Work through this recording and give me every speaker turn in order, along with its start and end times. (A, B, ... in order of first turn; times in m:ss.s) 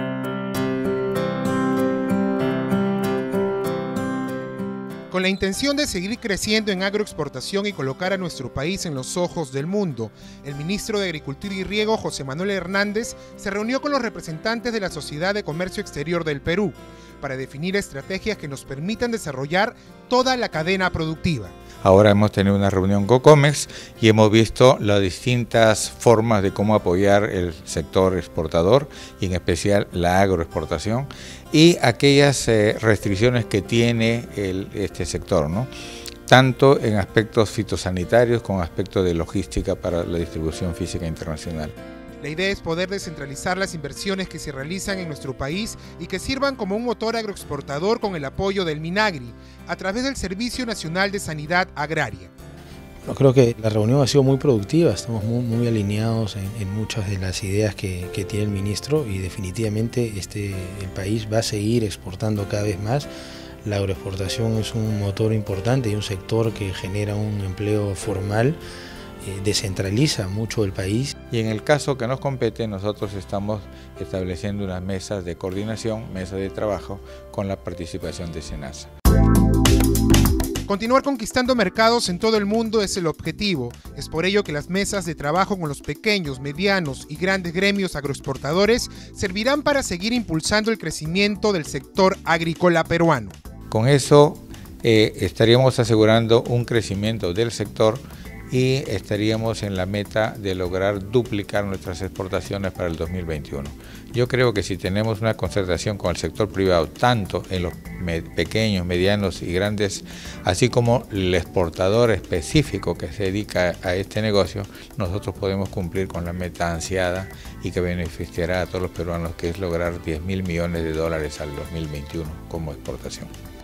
0:05.1-0:21.5 A
0:21.8-0:35.7 B
0:36.3-0:41.7 B
0:42.2-0:52.3 A
0:53.0-1:03.1 C
1:03.6-1:08.6 C
1:09.2-1:11.1 C
1:11.3-1:18.9 B
1:20.6-1:33.3 A
1:33.7-2:03.3 B